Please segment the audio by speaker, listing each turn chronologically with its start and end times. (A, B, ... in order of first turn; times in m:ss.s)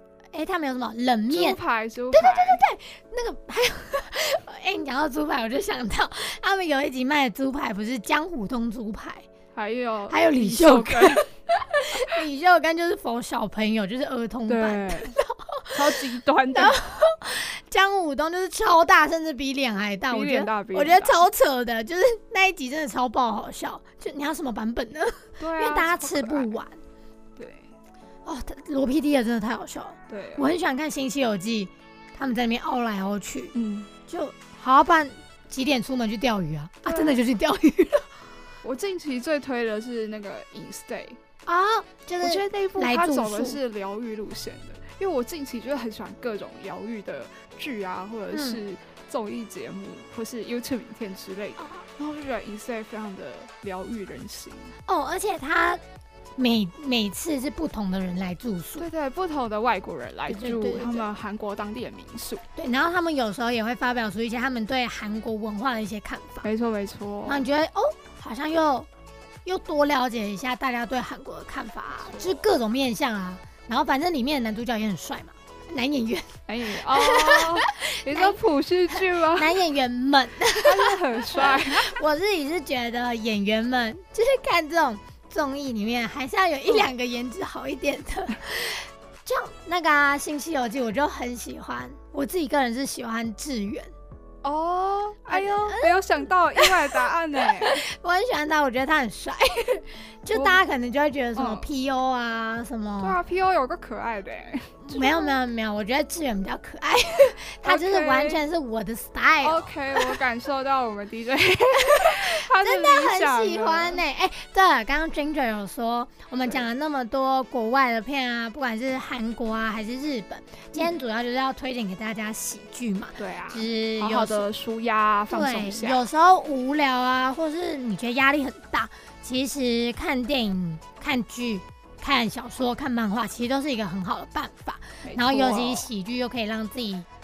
0:00.3-0:01.6 A
0:01.3-0:02.6 B
0:02.1-0:09.3 A
0:09.5-0:11.3 B
0:10.1-0:15.9 A
0:14.5-0:15.1 B
0:15.7-0:16.8 B
0:16.5-0:26.8 A
0:20.1-0:21.2 B
0:25.4-0:26.5 B
0:27.4-0:27.7 B
0:28.2-0:33.5 A
0:30.1-0:30.5 B
0:33.5-0:33.9 B
0:34.1-0:38.1 A
0:36.8-0:37.2 B
0:38.6-0:41.2 B
0:41.4-0:43.6 A
0:42.2-0:54.8 B
0:48.3-0:48.6 A
0:54.9-0:55.8 A
0:56.4-0:58.8 A
0:58.8-1:02.4 B
1:00.3-1:01.1 A
1:02.6-1:06.5 A
1:06.4-1:07.4 B
1:07.2-1:08.9 A
1:09.4-1:18.4 A
1:12.0-1:12.4 B
1:16.5-1:19.6 B
1:18.9-1:33.9 A
1:20.6-1:21.9 B
1:34.4-1:37.8 B
1:35.3-1:36.0 A
1:36.6-1:37.0 A
1:37.7-1:43.2 A
1:40.3-1:40.6 B
1:41.3-1:41.6 B
1:43.0-1:45.4 B
1:44.9-1:50.2 A
1:47.6-1:48.4 B
1:49.4-1:54.0 B
1:51.8-2:04.5 A
2:03.2-2:06.0 B
2:05.3-2:17.1 A
2:15.0-2:15.9 B